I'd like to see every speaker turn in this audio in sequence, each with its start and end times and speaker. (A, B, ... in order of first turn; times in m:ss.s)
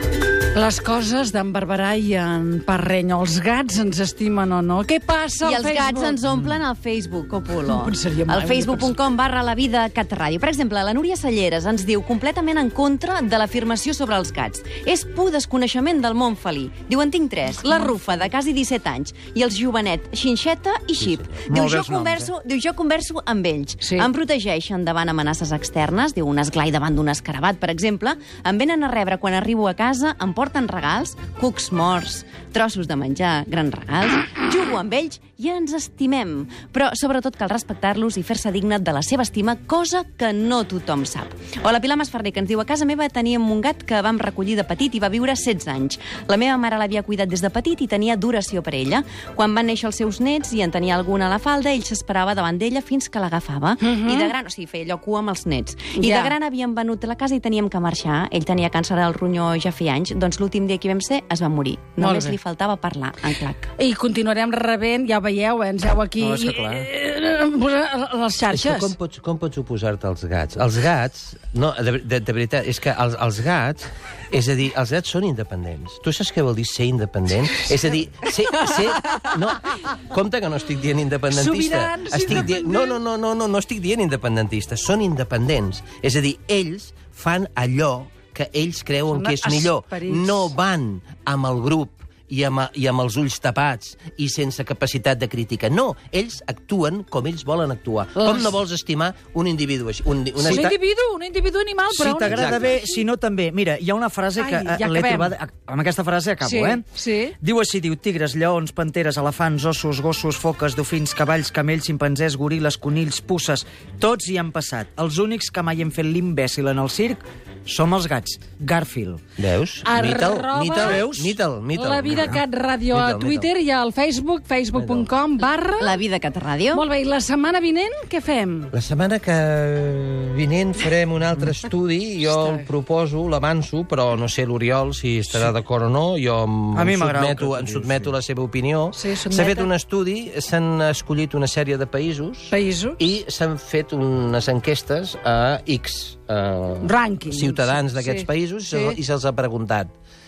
0:00.5-0:06.2 A
0:05.4-1:03.7 B
0:06.3-0:06.5 C
0:07.6-0:08.9 A
0:17.6-0:17.9 A
0:21.0-0:21.4 D
0:21.5-0:22.3 C
0:23.8-0:24.1 A
0:53.8-0:54.3 A
0:55.9-0:56.3 A
1:02.0-1:02.4 A
1:03.8-1:08.9 A
1:06.2-1:06.9 D
1:08.5-1:40.7 D
1:21.3-1:23.0 A
1:29.1-1:30.5 A
1:38.2-1:38.5 A
1:40.4-1:40.7 C
1:40.5-1:42.9 A
1:41.9-1:46.8 C
1:42.2-1:42.8 D
1:44.4-1:45.3 A
1:46.4-1:47.3 A
1:47.4-1:59.2 C
1:59.4-2:03.5 D
1:59.8-2:01.1 A
2:00.7-2:01.4 C
2:01.8-2:06.0 A
2:04.7-2:05.1 D
2:05.8-2:06.8 B
2:06.7-2:08.7 A
2:08.7-2:29.9 D
2:12.2-2:12.7 A
2:16.7-2:18.1 C
2:18.9-2:19.7 A
2:22.5-2:23.0 A
2:26.8-2:29.0 A